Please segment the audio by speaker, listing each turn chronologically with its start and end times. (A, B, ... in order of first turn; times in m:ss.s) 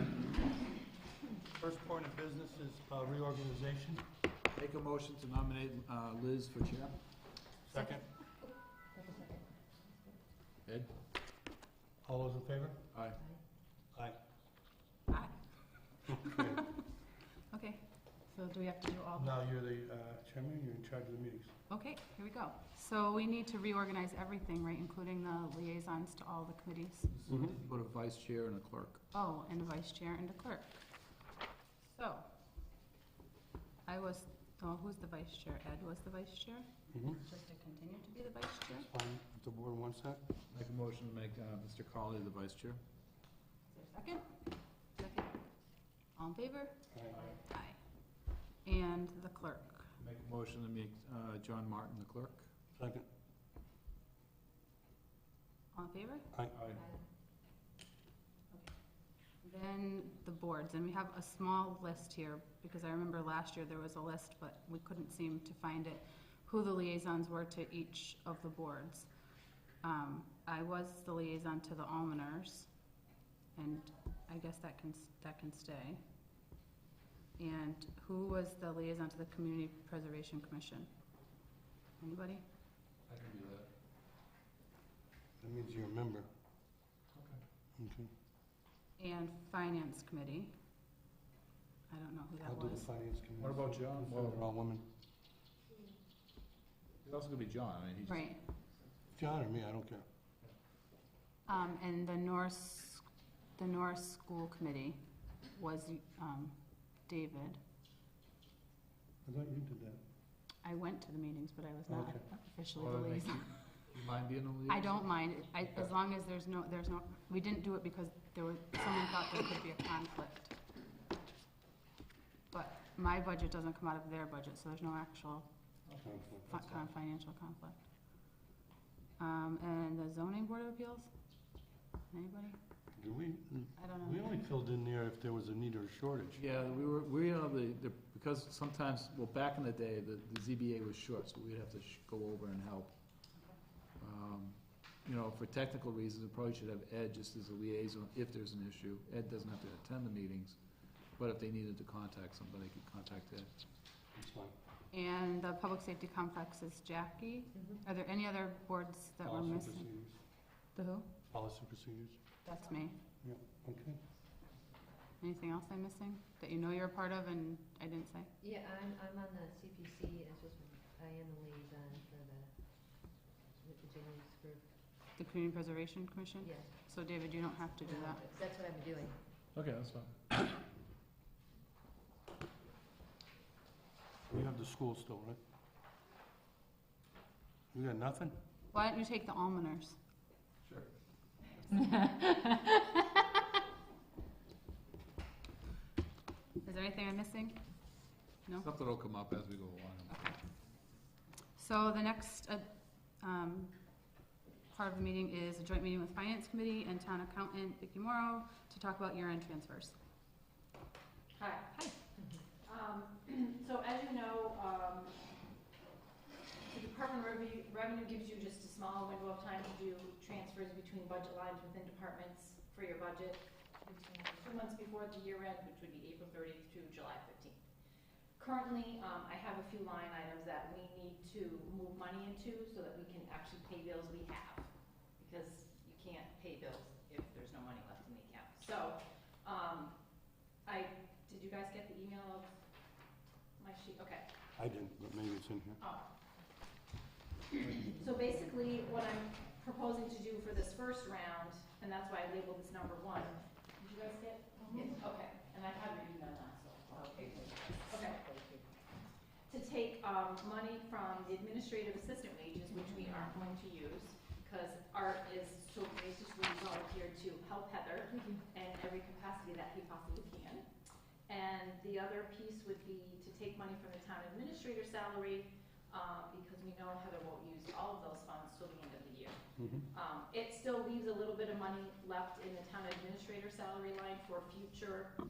0:01.6-0:04.0 A
0:04.6-0:07.0 B
0:07.7-0:08.1 A
0:12.0-0:12.8 A
0:12.9-0:13.2 B
0:15.1-0:15.3 C
0:16.1-0:16.9 C
0:16.2-0:16.7 A
0:17.5-0:19.3 C
0:19.2-0:21.5 A
0:21.7-0:27.1 C
0:27.2-0:29.0 B
0:27.3-0:27.6 A
0:29.1-0:30.8 C
0:31.8-0:32.3 C
0:33.8-0:38.9 C
0:36.9-0:37.2 A
0:38.7-0:40.2 A
0:40.5-0:42.8 B
0:43.7-0:44.2 C
0:45.0-0:45.3 C
0:46.2-0:46.9 C
0:46.9-0:47.2 A
0:47.5-0:47.8 C
0:48.6-0:49.9 C
0:50.0-0:52.5 B
0:52.8-0:53.1 A
0:55.7-0:56.3 C
0:56.5-0:56.9 B
0:56.7-0:57.0 D
0:59.4-1:09.1 C
1:09.8-1:12.7 C
1:13.6-1:16.0 C
1:17.4-1:20.9 C
1:22.0-1:22.4 C
1:23.1-1:23.7 B
1:25.4-1:26.3 A
1:27.1-1:27.4 B
1:27.8-1:28.1 A
1:29.0-1:30.6 C
1:31.9-1:32.9 C
1:32.4-1:34.8 A
1:33.4-1:34.4 B
1:37.0-1:38.3 B
1:38.1-1:38.4 C
1:39.1-1:40.0 A
1:41.5-1:45.0 C
1:45.5-1:47.6 C
1:49.2-1:50.0 A
1:50.6-1:53.7 C
1:51.9-1:52.2 A
1:52.8-1:55.1 B
1:54.7-2:00.6 C
1:55.6-1:55.9 B
2:02.5-2:05.5 C
2:05.9-2:06.8 B
2:06.0-2:06.5 A
2:06.5-2:07.9 C
2:09.2-2:11.1 C
2:12.1-2:12.6 C
2:13.0-2:16.4 A
2:13.8-2:14.2 C
2:16.4-2:22.9 B
2:24.0-2:30.6 B
2:31.2-2:33.5 B
2:34.2-2:34.5 A
2:34.9-2:39.9 C
2:37.6-2:37.8 D
2:39.2-2:40.2 A
2:40.8-2:41.1 C
2:41.3-2:42.2 A
2:42.4-2:43.0 C
2:43.2-2:44.0 A
2:45.2-2:48.3 C
2:48.4-2:54.7 D
2:55.2-2:58.2 C
2:56.4-2:56.7 D
2:57.8-2:59.2 D
2:59.6-3:00.1 B
3:04.3-3:05.4 A
3:07.7-3:08.4 A
3:08.7-3:10.0 C
3:16.6-3:17.6 C
3:18.6-3:20.3 B
3:21.6-3:22.7 C
3:23.2-3:23.7 C
3:24.7-3:30.0 C
3:31.4-3:31.9 E
3:32.6-3:35.2 E
3:36.7-3:47.6 E
3:48.4-4:00.0 E
4:00.7-4:02.5 E
4:03.6-4:04.3 E
4:04.6-4:05.8 A
4:05.8-4:06.1 E
4:07.6-4:18.2 E
4:17.3-4:18.6 D
4:19.5-4:30.6 E
4:31.3-4:39.4 E
4:39.6-4:39.9 A
4:39.9-4:45.1 E